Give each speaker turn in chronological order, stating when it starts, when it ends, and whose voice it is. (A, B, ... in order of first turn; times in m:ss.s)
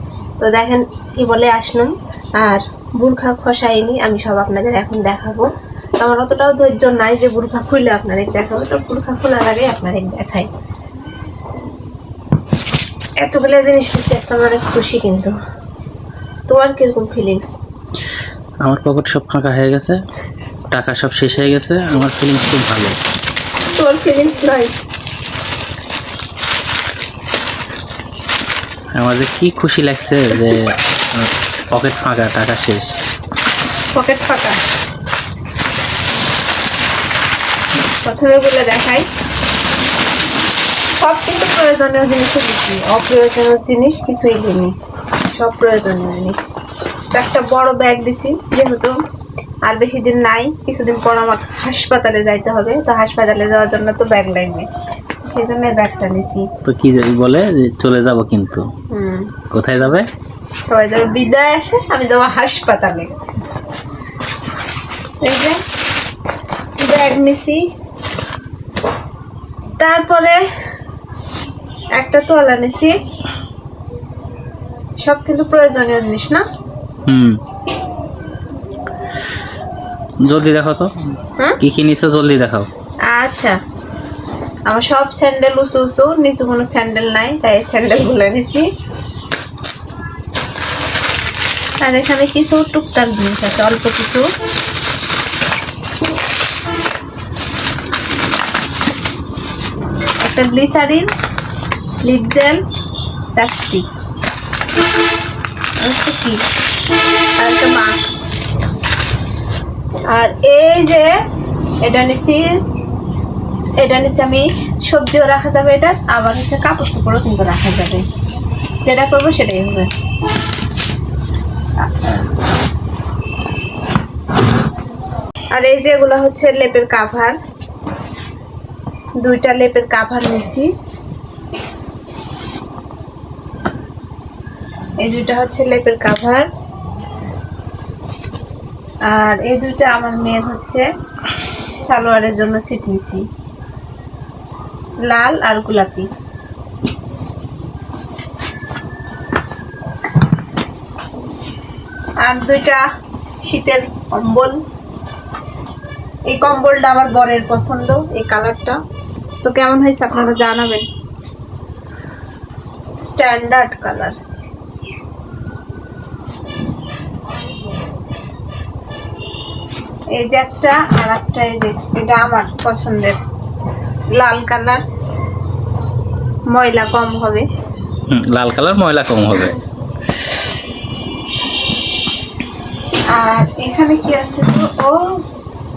0:00.4-0:05.5 A
0:06.0-0:10.5 A
0:13.2-0:15.3 A
0:16.5-0:17.5 A
0:18.6-0:20.0 B
0:20.7-0:23.0 B
0:23.8-0:24.8 A
0:28.9-0:32.9 B
0:33.9-0:34.6 A
0:38.0-0:39.1 A
0:41.0-0:44.7 A
0:45.3-0:46.4 A
0:47.1-0:49.0 A
0:49.6-0:54.7 A
0:55.2-0:56.5 A
0:56.6-0:58.7 B
0:58.9-0:59.3 A
0:59.5-1:00.1 B
1:00.7-1:03.1 A
1:05.2-1:05.6 A
1:06.8-1:07.7 A
1:09.8-1:10.4 A
1:12.0-1:12.9 A
1:15.0-1:16.4 A
1:17.1-1:17.4 B
1:20.2-1:20.9 B
1:21.6-1:22.7 B
1:23.1-1:23.6 A
1:24.7-1:28.7 A
1:31.8-1:34.3 A
1:40.2-1:41.1 A
1:42.0-1:42.6 A
1:43.3-1:43.9 A
1:45.8-1:46.4 A
1:47.4-1:48.3 A
1:50.1-1:51.2 A
1:51.8-1:52.6 A
1:53.8-1:58.0 A
1:58.8-1:59.9 A
2:01.8-2:02.3 A
2:05.5-2:07.4 A
2:09.2-2:10.7 A
2:15.0-2:16.5 A
2:19.0-2:20.8 A
2:21.7-2:23.2 A
2:25.1-2:26.1 A
2:32.2-2:32.8 A
2:33.4-2:34.6 A
2:36.3-2:38.8 A
2:39.4-2:40.9 A
2:43.0-2:44.2 A
2:50.2-2:53.2 A
2:54.2-2:54.8 A
2:56.5-2:57.4 A
2:58.1-2:59.6 B
3:03.1-3:05.2 A